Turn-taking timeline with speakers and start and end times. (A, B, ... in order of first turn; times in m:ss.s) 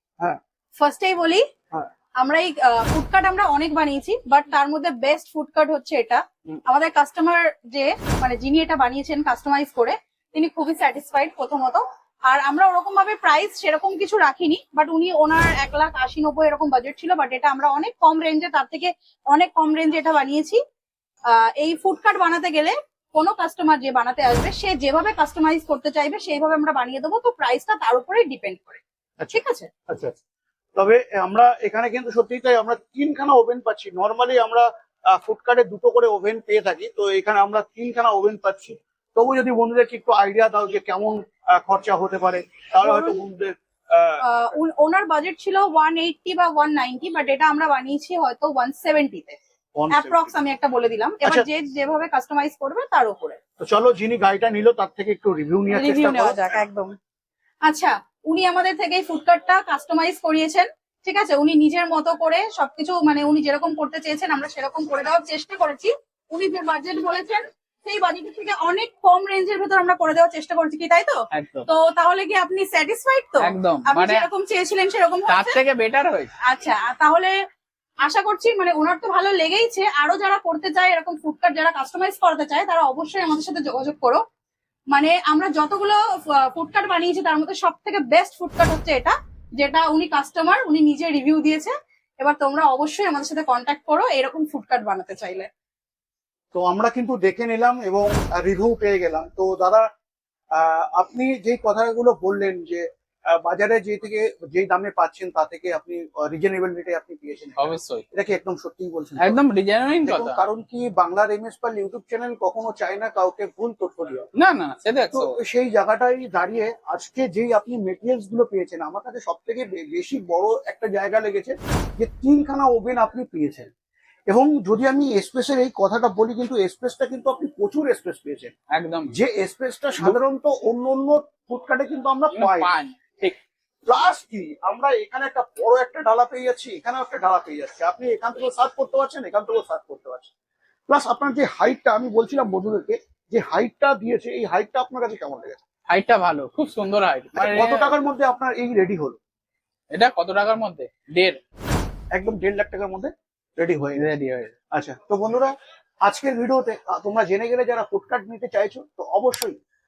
0:00.8-0:01.4 A
0:02.2-0:20.6 A
0:21.3-0:28.8 A
0:29.2-0:30.2 B
0:29.3-0:29.7 A
0:30.8-0:44.2 B
0:42.8-0:43.2 A
0:44.2-0:49.4 A
0:49.8-0:50.3 B
0:49.9-0:53.4 A
0:53.6-0:56.6 B
0:55.7-0:57.0 A
0:57.7-1:15.6 A
1:11.3-1:11.7 C
1:13.4-1:14.3 C
1:15.3-1:16.3 C
1:16.4-1:17.3 A
1:18.0-1:24.2 A
1:24.9-1:35.5 A
1:36.5-1:39.8 B
1:40.5-1:49.4 B
1:47.6-1:48.0 C
1:49.2-1:50.4 C
1:50.0-1:54.3 B
1:54.4-1:55.4 C
1:55.1-2:03.7 B
2:04.3-2:08.5 B
2:08.7-2:09.1 C
2:09.1-2:12.7 B
2:12.4-2:13.4 C
2:13.9-2:20.3 B
2:20.9-2:25.6 B
2:25.9-2:27.9 C
2:27.4-2:29.2 B
2:29.9-2:31.4 C
2:32.1-2:34.1 B
2:34.0-2:34.5 C
2:34.7-2:35.5 B
2:36.0-2:39.6 B